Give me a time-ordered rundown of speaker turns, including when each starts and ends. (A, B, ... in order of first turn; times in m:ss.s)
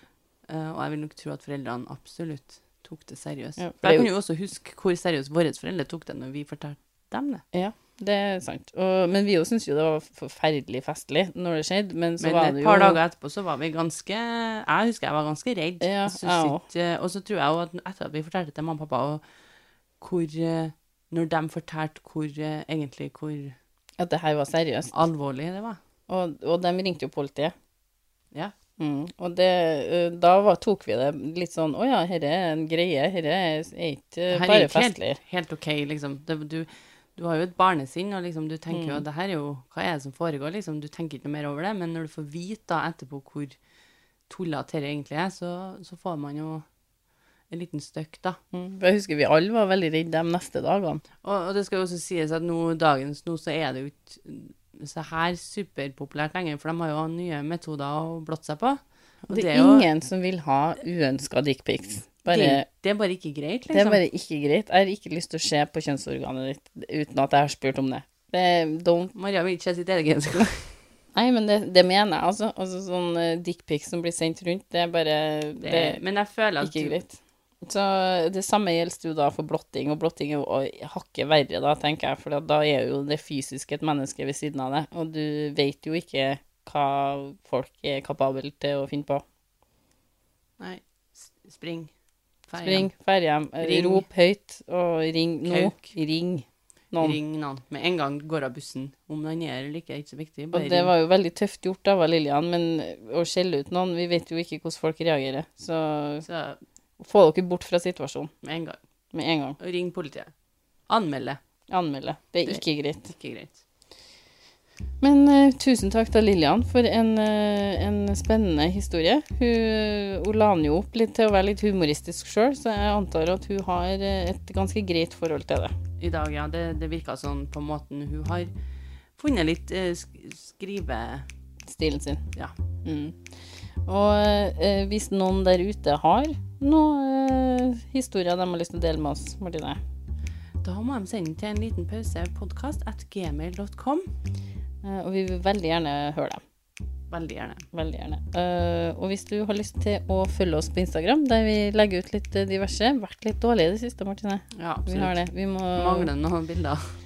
0:00.5-0:07.4 A
0:03.6-0:04.1 B
0:07.5-0:13.0 B
0:12.2-0:19.2 A
0:15.8-0:16.6 B
0:20.0-0:23.6 A
0:24.0-0:25.0 B
0:24.9-0:25.8 A
0:26.1-0:27.5 B
0:28.8-0:35.2 B
0:34.3-0:43.6 A
0:38.7-0:39.0 B
0:44.3-0:46.6 A
0:47.5-0:48.4 A
0:48.5-0:51.0 B
0:51.2-0:59.9 A
0:59.3-1:02.6 B
1:02.3-1:04.0 A
1:03.7-1:09.1 B
1:09.1-1:10.6 A
1:11.1-1:16.0 B
1:15.6-1:17.0 A
1:16.6-1:29.2 B
1:30.6-1:31.9 A
1:32.5-1:32.9 A
1:32.6-1:37.2 B
1:33.6-1:34.0 A
1:35.4-1:35.9 A
1:37.0-1:40.9 A
1:40.5-1:46.2 B
1:46.2-1:46.6 A
1:47.0-1:48.3 B
1:48.4-1:48.8 A
1:49.1-1:49.6 B
1:49.6-1:50.3 A
1:50.9-1:51.4 A
1:51.7-1:53.1 B
1:52.4-1:53.6 A
1:55.0-2:05.7 B
2:06.0-2:08.5 A
2:09.2-2:11.3 A
2:11.6-2:12.2 B
2:12.8-2:13.3 B
2:13.8-2:19.8 B
2:20.6-2:24.1 A
2:24.8-2:26.4 B
2:27.1-2:27.6 A
2:27.7-2:36.1 B
2:34.6-2:36.9 A